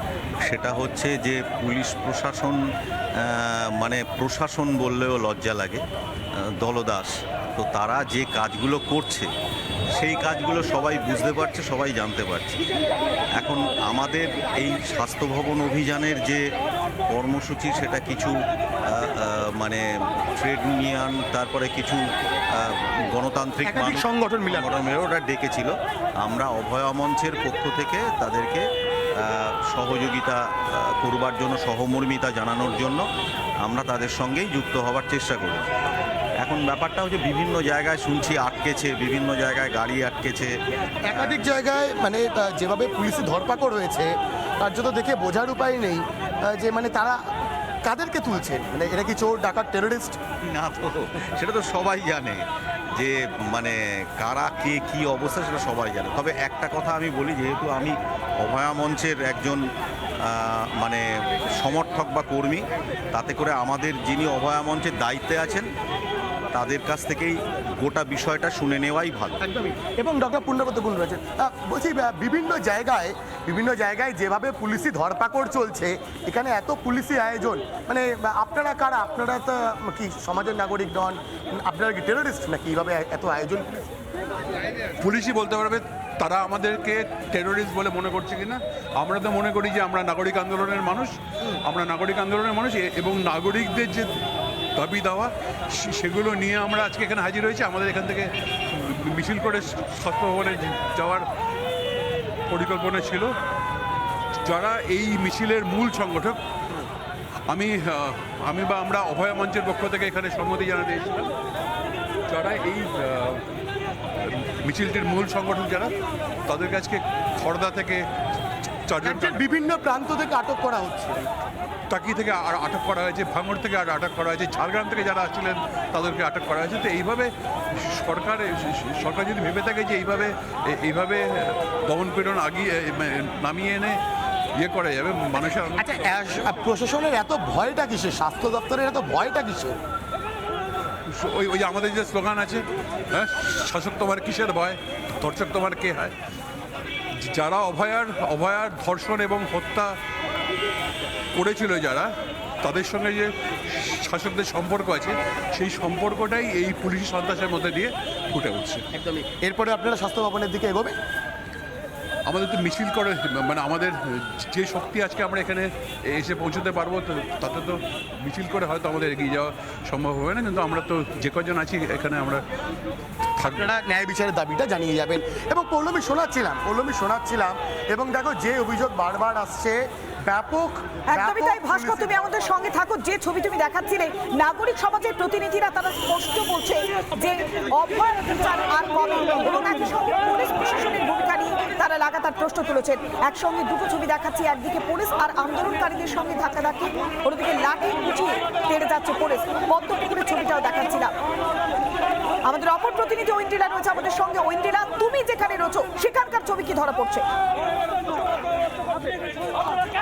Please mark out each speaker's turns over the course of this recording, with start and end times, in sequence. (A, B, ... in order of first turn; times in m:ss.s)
0:00.4-0:02.6 A
0:03.2-0:05.8 A
0:06.6-0:09.3 A
0:09.9-0:12.6 A
0:13.4-0:16.4 A
0:17.1-0:18.3 A
0:18.9-0:22.0 A
0:22.6-0:28.6 A
0:23.6-0:24.7 B
0:29.2-0:33.0 A
0:33.6-0:35.7 A
0:36.4-0:40.5 A
0:41.0-0:47.2 B
0:41.1-0:41.4 A
0:47.8-0:50.2 B
0:50.4-0:52.4 A
0:53.0-0:59.6 A
1:00.2-1:05.7 A
1:06.5-1:09.4 A
1:09.4-1:23.9 B
1:25.0-1:34.2 C
1:34.8-1:41.2 C
1:42.5-1:43.3 C
1:44.4-1:46.4 C
1:47.5-1:51.3 C
1:52.3-1:53.4 C
1:54.2-1:55.9 C
1:56.5-1:58.0 C
1:58.9-1:59.4 C
1:59.0-2:01.3 B
2:01.9-2:14.0 C
2:14.6-2:16.1 C
2:15.7-2:19.7 B
2:21.1-2:26.1 C
2:27.2-2:30.0 C
2:31.3-2:32.1 C
2:32.6-2:38.8 C
2:38.9-2:41.0 B
2:42.3-2:52.4 C
2:53.4-2:53.7 C
2:53.5-3:02.2 B
3:01.1-3:21.1 D
3:22.4-3:27.2 D